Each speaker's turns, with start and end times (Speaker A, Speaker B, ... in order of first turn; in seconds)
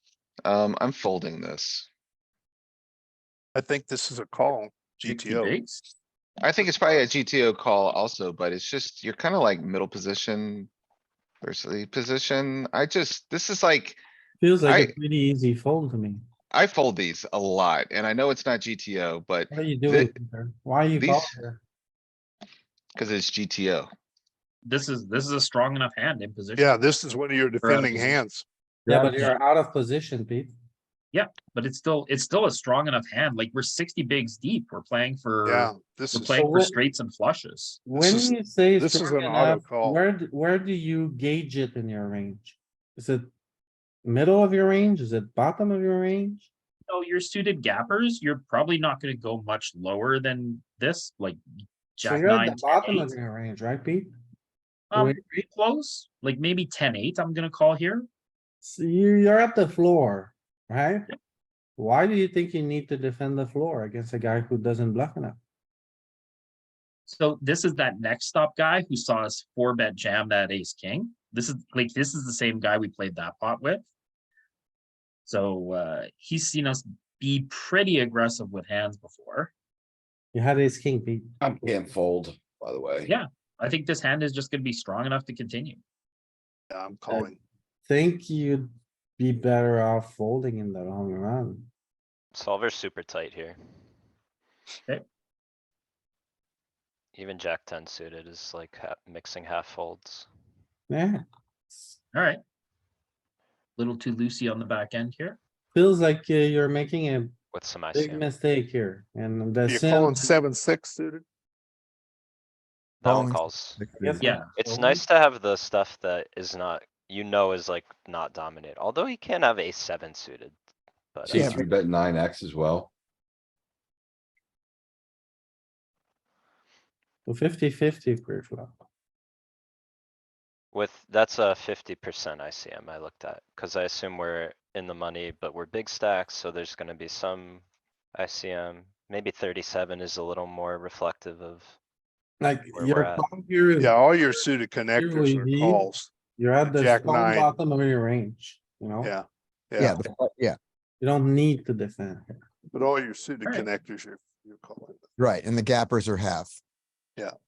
Speaker A: 0.4-1.9, 6.4-10.7, 11.4-14.0, 14.7-15.0, 16.5-20.1, 20.9-21.4, 22.9-23.9
Speaker B: 3.5-5.5, 26.6-28.4, 35.4-36.3, 37.9-40.0, 86.7-87.4, 109.7-111.2, 143.8-146.1, 146.7-147.5, 149.0-150.0, 152.7-155.1
Speaker C: 5.0-5.8, 24.6-26.8, 27.6-28.2, 31.1-37.8, 46.9-51.4, 51.9-53.1, 54.9-58.1, 67.0-73.8, 75.2-79.5, 83.0-85.8, 102.1-102.4, 103.8-105.4, 114.2-114.5
Speaker D: 14.4-16.2, 19.5-21.6, 28.9-30.5, 36.3-36.8, 37.9-43.3, 44.0-46.5, 52.0-54.1, 58.6-61.1, 61.8-65.4, 80.3-81.3, 87.8-91.7, 100.9-102.0, 105.7-107.3, 107.9-110.3, 114.0-115.0, 127.2-128.7, 142.4-143.9, 145.0-145.8, 146.3-149.1, 151.0-152.4
Speaker E: 81.4-83.1, 121.3-122.9
Speaker F: 92.3-93.6, 97.1-100.3, 107.5-108.2, 113.0-113.8, 114.5-120.5, 121.1-121.6, 130.7-141.8, 142.7-143.2
Speaker G: 113.0-114.3, 121.3-121.7, 149.8-150.6, 155.2-156.6